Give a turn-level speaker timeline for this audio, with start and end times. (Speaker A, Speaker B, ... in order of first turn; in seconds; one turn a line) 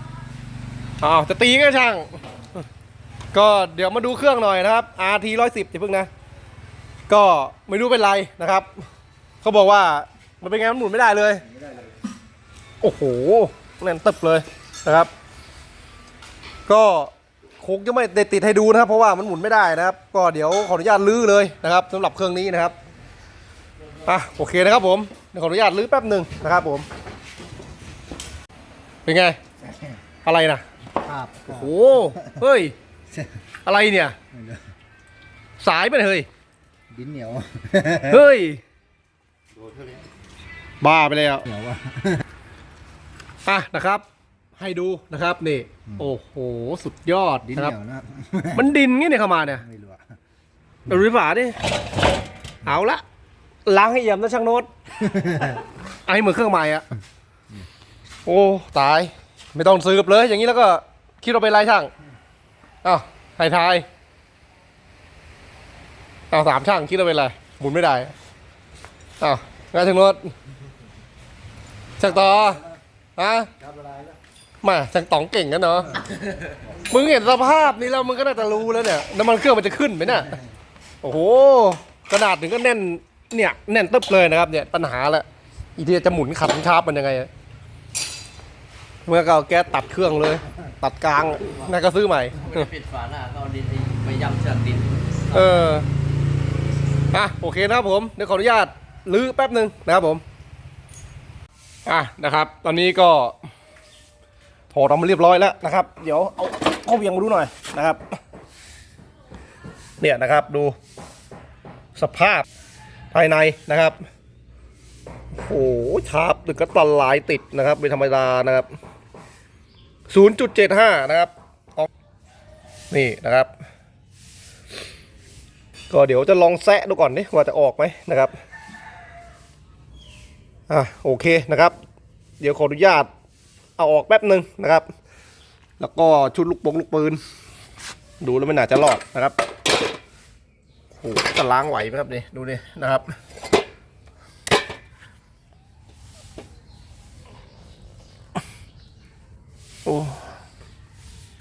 Speaker A: 1.0-2.6
Speaker A: 3.3-6.1
Speaker A: 7.1-8.8
Speaker A: 9.4-11.4
Speaker A: 12.8-15.1
Speaker A: 16.7-22.8
Speaker A: 24.1-26.9
Speaker A: 29.1-29.4
Speaker A: 30.2-30.6
Speaker B: 31.1-31.6
Speaker A: 31.3-32.8
Speaker A: 33.6-34.2
Speaker B: 34.3-34.6
Speaker A: 35.6-36.3
Speaker B: 36.9-38.2
Speaker A: 38.0-38.6
Speaker B: 39.7-40.0
Speaker A: 40.8-41.5
Speaker B: 41.5-42.2
Speaker A: 43.5-44.0
Speaker A: 44.6-47.8
Speaker B: 47.6-48.6
Speaker A: 48.5-49.7
Speaker B: 49.6-50.0
Speaker A: 50.9-51.6
Speaker A: 52.6-53.0
Speaker A: 53.7-54.7
Speaker B: 55.2-55.5
Speaker A: 55.4-56.9
Speaker A: 58.3-61.9
Speaker A: 62.8-63.9
Speaker A: 66.3-68.1
Speaker A: 69.2-70.3
Speaker A: 72.0-72.6
Speaker A: 73.2-73.5
Speaker A: 74.6-76.0
Speaker A: 76.7-80.4
Speaker A: 81.0-87.3
Speaker A: 89.1-92.7
Speaker C: 92.6-95.3
Speaker A: 95.3-95.9
Speaker A: 97.1-100.2
Speaker A: 101.9-103.4
Speaker A: 104.7-108.2
Speaker A: 110.0-110.8
Speaker A: 112.0-112.5
Speaker A: 113.1-114.0
Speaker A: 115.3-118.7
Speaker A: 120.1-121.9
Speaker A: 122.9-123.5
Speaker A: 125.9-128.3
Speaker A: 130.7-131.8
Speaker A: 132.4-133.1
Speaker A: 133.8-134.9
Speaker A: 135.8-137.2
Speaker A: 138.2-139.4
Speaker A: 140.9-143.2
Speaker A: 149.8-150.2